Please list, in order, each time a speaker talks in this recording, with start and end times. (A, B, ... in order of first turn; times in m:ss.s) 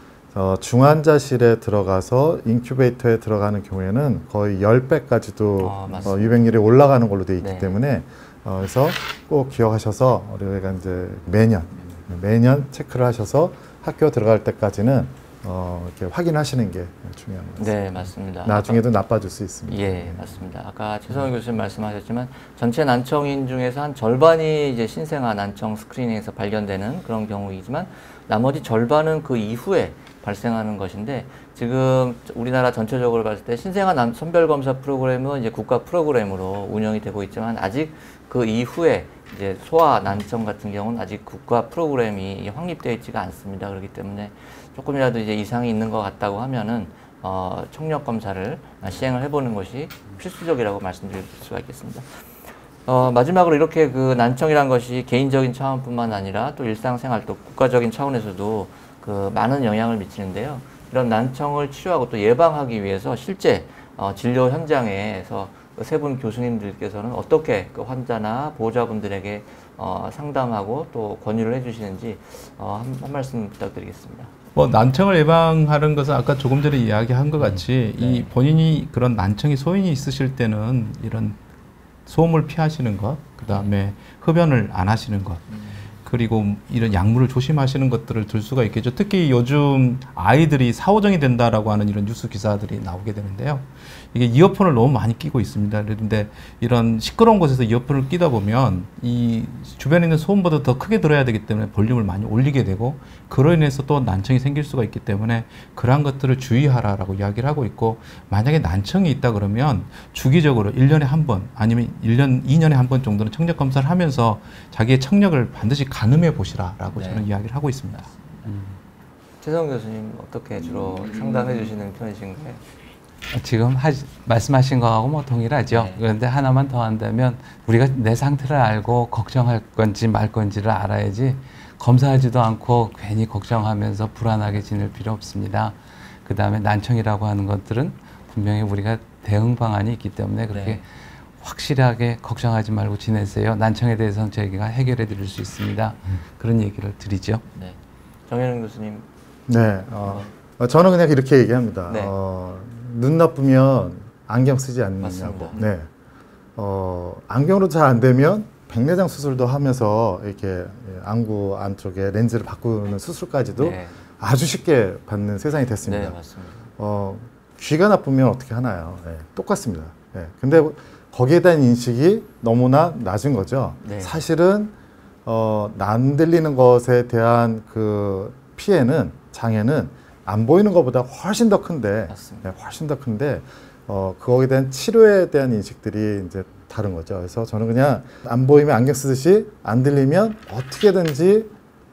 0:00.3-0:20.4 A
0:05.6-0:06.4 B
0:07.4-0:07.8 B
0:17.6-0:18.8 B
0:19.7-0:52.3 B
0:52.9-1:14.3 B
1:14.6-1:21.4 C
1:18.0-1:18.3 B
1:22.1-1:25.5 C
1:26.0-1:58.1 C
1:57.0-1:57.3 B
1:58.5-1:58.8 D
1:59.4-2:02.6 B
2:03.3-2:20.9 D
2:05.7-2:06.0 B
2:20.5-2:20.8 B
2:21.4-2:27.4 D
2:27.5-2:27.8 B
2:28.3-2:29.1 B
2:29.5-2:35.9 A
2:35.0-2:35.6 B
2:36.6-2:46.2 A
2:43.6-2:44.0 B
2:45.8-2:46.7 B
2:46.8-2:54.7 A
2:53.8-2:54.2 B
2:55.3-3:11.5 A
3:02.1-3:02.5 B